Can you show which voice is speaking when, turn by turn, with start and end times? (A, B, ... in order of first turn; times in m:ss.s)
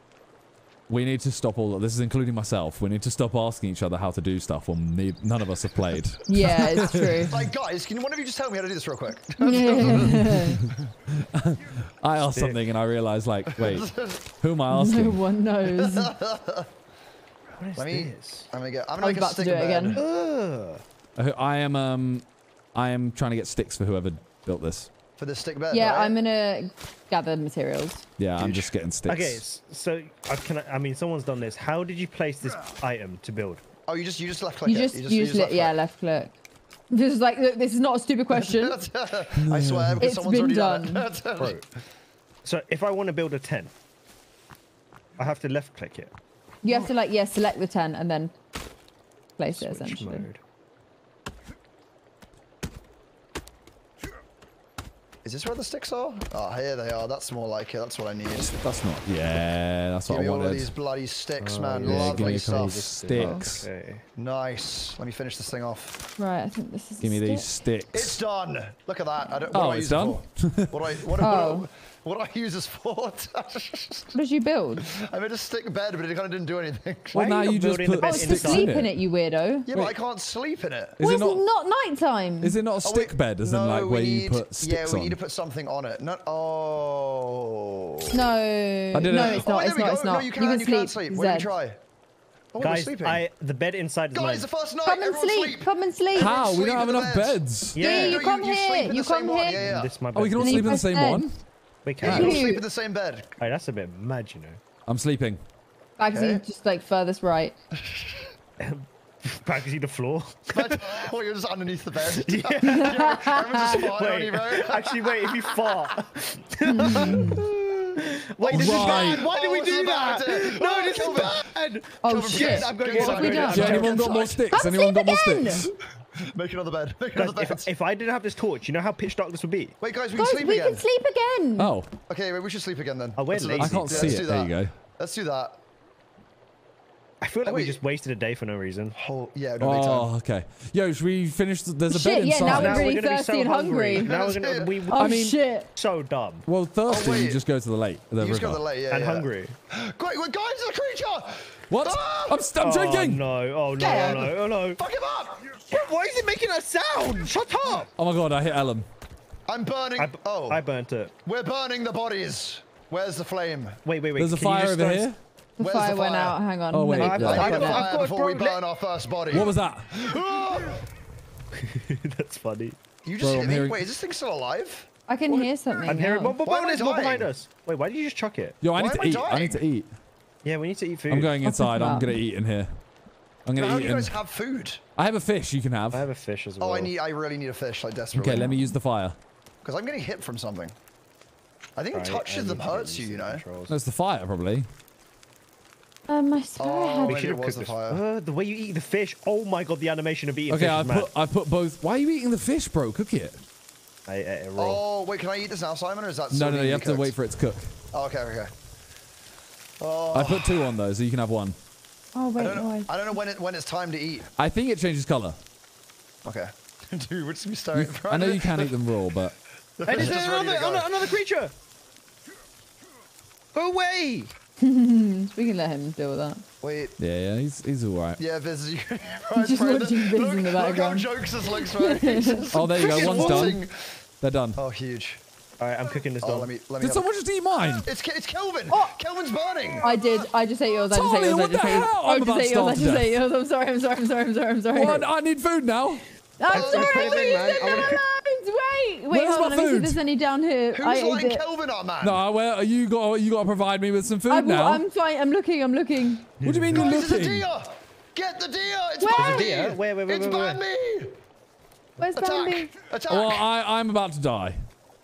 0:00.9-0:07.4 A
0:06.3-0:07.4 B
0:06.8-0:10.9 C
0:09.4-0:10.6 B
0:09.8-0:15.2 A
0:12.3-0:12.6 D
0:13.5-0:14.2 C
0:14.7-0:16.1 B
0:15.6-0:16.7 C
0:17.6-0:18.5 D
0:17.8-0:20.0 C
0:19.0-0:20.0 B
0:19.9-0:20.8 D
0:21.2-0:24.9 A
0:25.2-0:26.2 C
0:25.7-0:28.0 B
0:28.2-0:29.4 A
0:28.4-0:28.7 C
0:29.0-0:33.6 D
0:33.9-0:35.7 C
0:34.6-0:36.3 B
0:36.9-0:38.8 B
0:38.3-0:41.6 C
0:39.4-0:40.0 A
0:40.0-0:41.1 B
0:41.4-0:41.6 D
0:42.4-0:43.7 D
0:45.2-0:46.1 D
0:46.6-0:48.3 B
0:49.4-0:50.3 B
0:49.5-0:50.4 D
0:55.2-0:58.5 C
0:58.4-1:00.7 A
1:00.1-1:02.8 C
1:01.4-1:04.0 D
1:01.8-1:03.7 A
1:03.2-1:03.4 B
1:04.2-1:06.0 C
1:06.2-1:07.4 B
1:07.0-1:08.2 A
1:07.9-1:14.2 C
1:09.5-1:10.8 A
1:11.2-1:11.7 B
1:14.1-1:14.9 B
1:14.8-1:17.3 C
1:17.1-1:18.9 A
1:17.1-1:18.7 D
1:18.0-1:19.7 B
1:19.7-1:21.0 C
1:21.0-1:21.4 A
1:21.0-1:22.6 B
1:22.4-1:25.2 A
1:22.8-1:28.3 C
1:28.1-1:31.5 B
1:28.9-1:29.4 A
1:29.1-1:31.8 C
1:32.5-1:33.2 C
1:32.6-1:34.5 D
1:34.1-1:39.9 C
1:34.8-1:36.3 B
1:36.1-1:37.8 A
1:37.7-1:38.2 D
1:37.8-1:39.6 B
1:39.5-1:40.8 D
1:40.1-1:41.4 A
1:40.4-1:41.2 B
1:41.8-1:42.6 D
1:42.0-1:42.6 B
1:42.0-1:43.3 C
1:43.4-1:44.6 D
1:44.9-1:45.4 A
1:46.0-1:47.5 B
1:46.1-1:46.4 C
1:47.7-1:48.3 C
1:48.6-1:51.0 D
1:50.5-1:56.1 C
1:52.1-2:04.1 D
1:52.7-1:53.6 B
1:56.7-1:57.4 B
1:56.8-2:04.5 C
1:58.5-1:59.2 A
2:02.0-2:05.7 B
2:03.5-2:05.7 A
2:06.1-2:07.7 C
2:07.1-2:09.7 D
2:09.8-2:10.8 C
2:10.1-2:11.7 B
2:11.6-2:11.9 A
2:12.1-2:15.6 C
2:13.2-2:14.3 D
2:13.6-2:14.7 A
2:17.2-2:19.0 D
2:17.4-2:17.8 C
2:18.9-2:20.1 C
2:19.6-2:22.9 A
2:21.9-2:24.1 B
2:22.4-2:26.4 D
2:24.0-2:24.8 C
2:24.9-2:25.7 B
2:25.0-2:25.4 A
2:26.4-2:28.6 A
2:26.8-2:27.4 C
2:28.2-2:32.5 C
2:28.9-2:29.5 D
2:31.7-2:33.2 A
2:32.6-2:34.8 D
2:33.8-2:34.3 B
2:33.8-2:35.5 C
2:35.6-2:37.9 D
2:38.0-2:38.9 A
2:39.5-2:40.6 C
2:40.0-2:41.1 D
2:41.2-2:43.8 C
2:43.8-2:45.1 D
2:44.2-2:45.2 A
2:45.6-2:47.9 B
2:45.6-2:46.4 C
2:46.7-2:47.6 A
2:47.0-2:48.6 D
2:47.2-2:50.9 C
2:49.3-2:49.9 A
2:51.5-2:52.8 D
2:53.0-2:54.9 C
2:53.2-2:53.8 A
2:55.1-2:56.4 B
2:55.3-2:58.6 D
2:56.4-2:57.3 C
2:58.6-2:59.9 A
2:58.7-2:59.6 C
3:00.4-3:01.4 D
3:01.1-3:02.8 A
3:01.4-3:02.2 B
3:03.4-3:04.2 A
3:03.5-3:04.8 C
3:05.0-3:06.0 A
3:05.9-3:06.9 D
3:06.6-3:08.5 C
3:08.1-3:09.2 A
3:08.3-3:08.7 B
3:09.6-3:10.7 C
3:11.8-3:13.4 C
3:11.9-3:13.7 D
3:13.7-3:14.7 A
3:16.1-3:17.2 B
3:16.6-3:18.0 C
3:17.0-3:21.1 D
3:20.5-3:23.4 A
3:24.1-3:24.8 D
3:24.6-3:27.1 C
3:26.3-3:27.7 A
3:27.9-3:28.5 C
3:29.8-3:30.7 C
3:30.1-3:31.6 A
3:32.1-3:32.9 B
3:32.4-3:34.3 C
3:34.4-3:35.4 A
3:36.2-3:38.7 C
3:37.7-3:39.3 A
3:39.8-3:41.2 C
3:39.8-3:41.5 D
3:43.5-3:44.3 D
3:44.6-3:46.4 B
3:46.6-3:47.0 C
3:47.0-3:48.2 A
3:48.2-3:54.0 C
3:49.4-3:52.4 B
3:52.5-3:53.6 A
3:52.7-3:53.5 D
3:54.2-3:54.6 A
3:54.6-3:55.2 C
3:55.6-3:56.5 D
3:56.2-3:57.1 C
3:56.8-3:57.9 A
3:57.8-4:00.2 C
3:59.8-4:05.1 B
4:00.9-4:03.2 A
4:04.7-4:06.0 A
4:06.4-4:11.4 B
4:06.5-4:08.0 D
4:06.5-4:08.0 C
4:09.1-4:10.0 A
4:10.7-4:12.2 C
4:12.0-4:14.8 A
4:14.3-4:16.3 B
4:16.4-4:16.9 D
4:16.4-4:17.5 A
4:16.7-4:21.2 C
4:19.0-4:19.5 B
4:19.1-4:20.6 D
4:22.0-4:22.7 B
4:22.1-4:23.4 C
4:23.1-4:24.6 A